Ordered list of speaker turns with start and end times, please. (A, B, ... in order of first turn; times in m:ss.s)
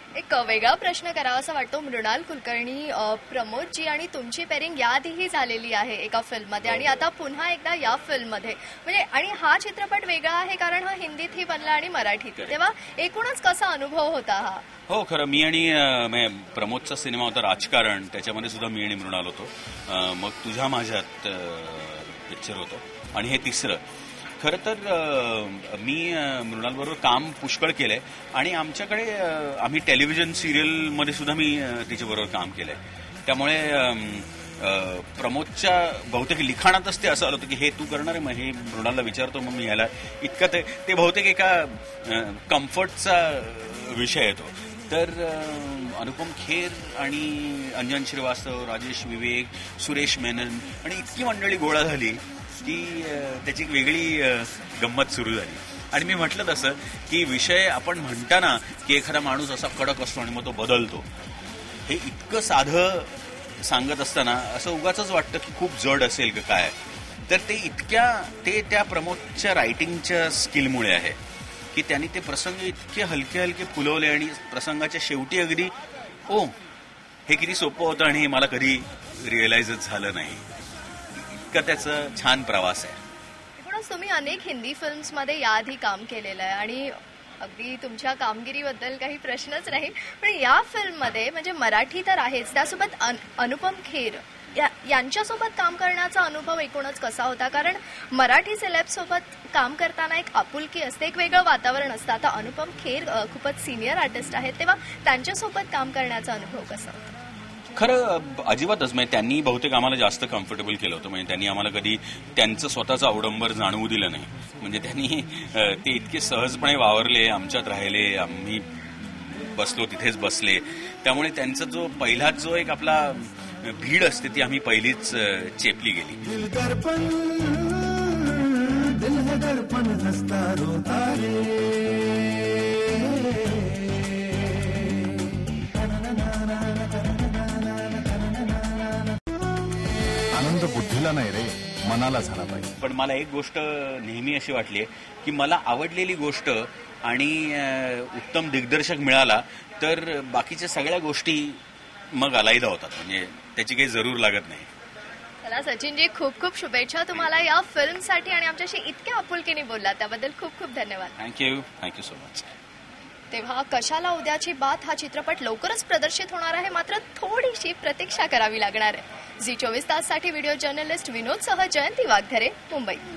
0:00.2-0:14.6 A
0:14.9-0:23.8 B
0:24.4-1:01.1 B
1:01.9-1:11.2 B
1:11.7-1:15.7 B
1:16.3-1:16.6 B
1:17.3-1:20.5 B
1:21.2-1:23.0 B
1:23.6-1:47.2 A
1:47.8-2:06.2 B
2:06.4-2:08.1 C
2:08.8-2:11.3 C
2:20.4-2:22.7 C
2:22.8-2:31.6 B
2:32.1-2:34.7 B
2:35.4-2:41.1 A
2:41.2-2:42.5 B
2:43.3-2:53.0 A